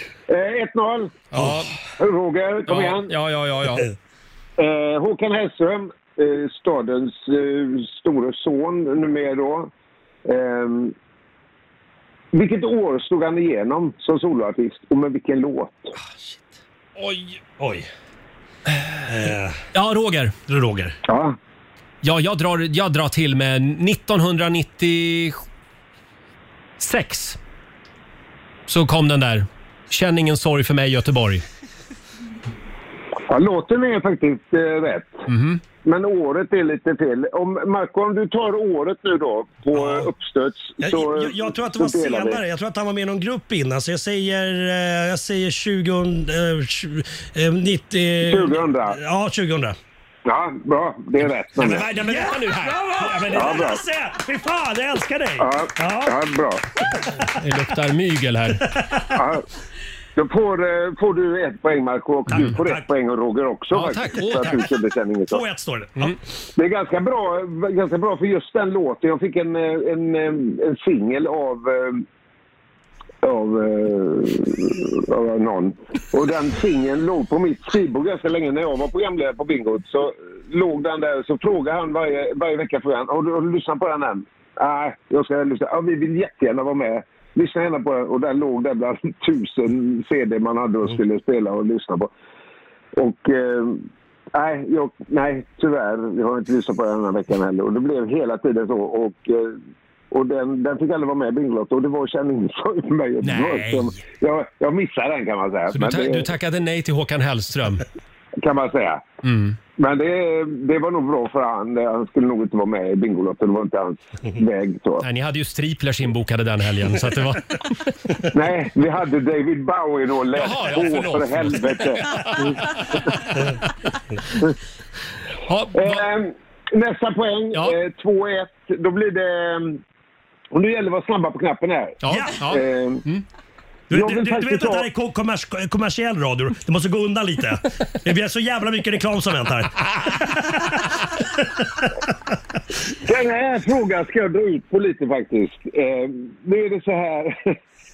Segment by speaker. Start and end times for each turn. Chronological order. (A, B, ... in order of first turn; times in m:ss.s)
0:00.3-0:01.3 A
0:01.3-0:01.7 B
0:02.0-0:03.1 A
0:02.6-0:03.9 B
0:04.6-0:09.7 A
0:10.2-0:10.9 A
0:12.3-0:15.9 A
0:17.0-0:17.4 B
0:17.6-0:17.9 C
0:19.1-0:19.6 C
0:19.7-0:20.4 B
0:20.5-0:21.0 C
0:21.0-0:21.4 A
0:22.0-0:25.4 B
0:26.8-0:27.4 B
0:28.7-0:31.4 B
0:33.3-0:35.3 A
0:35.3-0:35.6 B
0:35.8-0:42.4 A
0:39.7-0:40.1 C
0:40.8-0:49.8 C
0:48.2-0:49.0 A
0:50.2-0:51.9 A
0:51.6-0:56.1 C
0:51.6-0:53.6 B
0:53.3-0:53.8 A
0:55.4-0:56.6 A
0:57.4-0:58.7 B
0:59.1-0:59.4 A
1:00.2-1:05.4 A
1:02.3-1:02.9 C
1:03.7-1:04.5 B
1:05.3-1:06.2 C
1:06.6-1:12.0 A
1:13.2-1:32.1 A
1:33.0-1:39.6 A
1:40.1-1:46.3 A
1:43.2-1:44.0 B
1:45.7-1:47.8 B
1:48.4-1:49.1 A
1:49.2-1:49.6 B
1:49.8-1:55.0 A
1:55.0-1:57.9 B
1:58.3-2:02.5 A
2:00.3-2:03.3 B
2:05.4-2:06.1 B
2:05.7-2:09.8 A
2:10.5-2:13.0 A
2:12.0-2:13.2 B
2:12.1-2:12.4 C
2:13.9-2:20.6 C
2:13.9-2:14.9 A
2:23.0-2:27.5 A